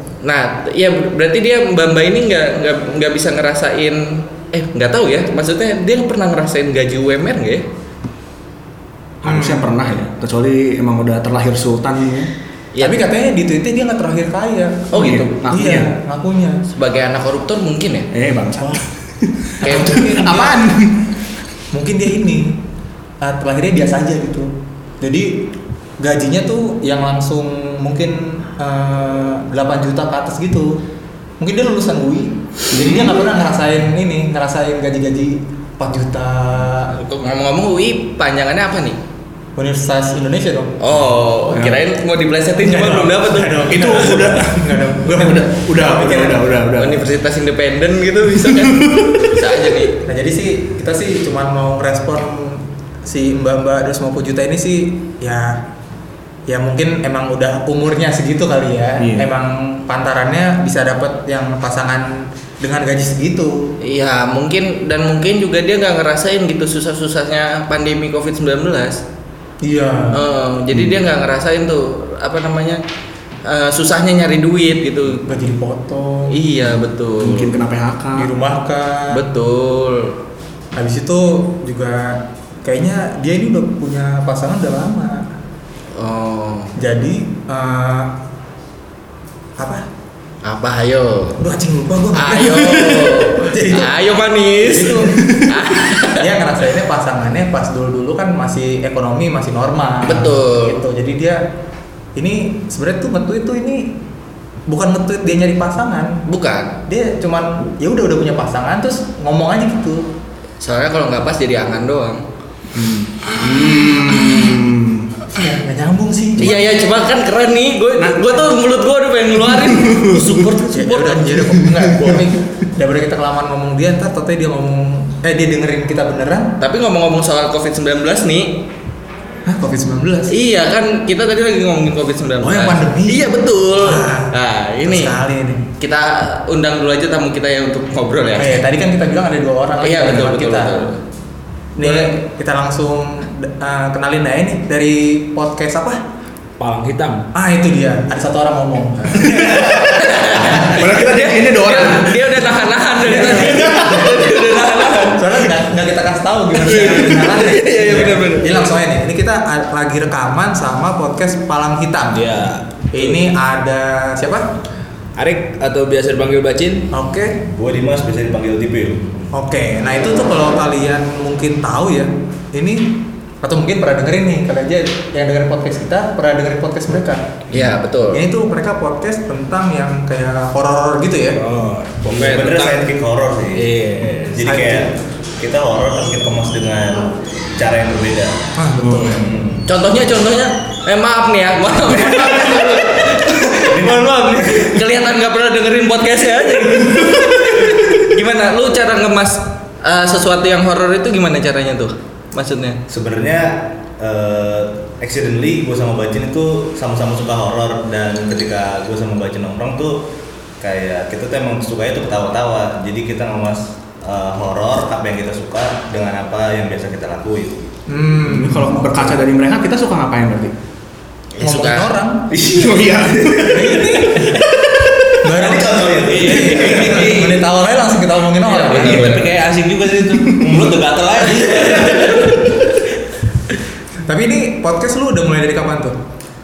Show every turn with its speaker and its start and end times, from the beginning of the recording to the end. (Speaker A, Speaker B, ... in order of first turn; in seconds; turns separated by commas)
Speaker A: 0.2-7.7, Speaker B: 9.2-9.7, Speaker C: 9.2-12.3, Speaker A: 12.7-13.1, Speaker B: 12.8-16.6, Speaker A: 14.9-15.3, Speaker C: 14.9-15.9, Speaker A: 16.7-18.1, Speaker C: 18.1-21.1, Speaker A: 19.6-20.0, Speaker B: 19.6-20.7, Speaker B: 21.7-22.6, Speaker B: 23.2-30.8, Speaker B: 31.4-37.0, Speaker C: 32.8-33.1, Speaker A: 37.0-39.0, Speaker B: 39.6-40.8, Speaker A: 40.8-44.1, Speaker C: 41.5-41.8, Speaker B: 42.6-46.5, Speaker C: 43.7-47.1, Speaker A: 46.8-50.0, Speaker C: 48.4-49.4, Speaker B: 50.0-55.7, Speaker B: 56.5-63.8, Speaker C: 59.0-59.3, Speaker A: 63.8-69.0, Speaker B: 69.6-70.2, Speaker A: 70.1-72.8, Speaker C: 70.7-71.0, Speaker A: 73.5-75.3, Speaker B: 75.2-76.3, Speaker A: 76.3-77.6, Speaker C: 77.2-78.3, Speaker B: 78.2-79.2, Speaker A: 79.1-80.2, Speaker B: 80.8-85.3, Speaker A: 86.0-86.8, Speaker B: 86.8-88.1, Speaker B: 89.6-89.8, Speaker A: 90.4-91.4, Speaker B: 91.4-93.9, Speaker A: 92.2-96.3, Speaker B: 94.6-95.4, Speaker C: 95.2-95.5, Speaker B: 96.0-101.4, Speaker A: 100.0-100.8, Speaker B: 102.2-104.0, Speaker B: 104.7-106.2, Speaker A: 106.3-106.8, Speaker B: 106.9-110.1, Speaker A: 110.6-112.2, Speaker C: 112.7-115.1, Speaker B: 115.3-116.6, Speaker A: 116.4-122.2, Speaker C: 118.0-118.3, Speaker C: 119.5-120.4, Speaker B: 120.7-126.5, Speaker A: 126.6-128.6, Speaker B: 129.5-130.3, Speaker A: 130.3-135.2, Speaker B: 132.4-135.7, Speaker A: 135.8-138.6, Speaker B: 138.4-140.9, Speaker A: 139.8-141.0, Speaker B: 141.8-146.0, Speaker A: 141.8-142.1, Speaker D: 146.6-147.3, Speaker B: 147.3-150.5, Speaker A: 149.6-155.4, Speaker C: 150.6-152.2, Speaker B: 153.0-154.4, Speaker B: 154.9-162.3, Speaker A: 156.7-158.5, Speaker D: 162.1-163.1, Speaker B: 162.9-164.4, Speaker D: 165.2-166.9, Speaker B: 166.9-167.4, Speaker E: 167.5-169.0, Speaker B: 169.3-177.3, Speaker A: 177.5-178.2, Speaker B: 178.1-181.4, Speaker D: 181.4-182.9, Speaker E: 182.1-183.7, Speaker D: 183.6-184.6, Speaker E: 184.3-188.4, Speaker B: 184.5-184.9, Speaker B: 188.6-189.3, Speaker C: 188.8-189.2, Speaker E: 189.1-189.7, Speaker A: 189.7-202.8, Speaker E: 193.5-194.8, Speaker E: 202.9-210.1, Speaker E: 210.6-217.7, Speaker B: 217.9-219.2, Speaker C: 218.2-220.5, Speaker A: 221.3-221.9, Speaker B: 221.4-222.3, Speaker C: 222.4-225.3, Speaker B: 223.4-224.5, Speaker B: 225.2-229.3, Speaker E: 225.3-227.2, Speaker D: 226.0-227.4, Speaker D: 228.5-232.6, Speaker C: 228.7-229.3, Speaker E: 230.4-232.2, Speaker B: 234.1-236.0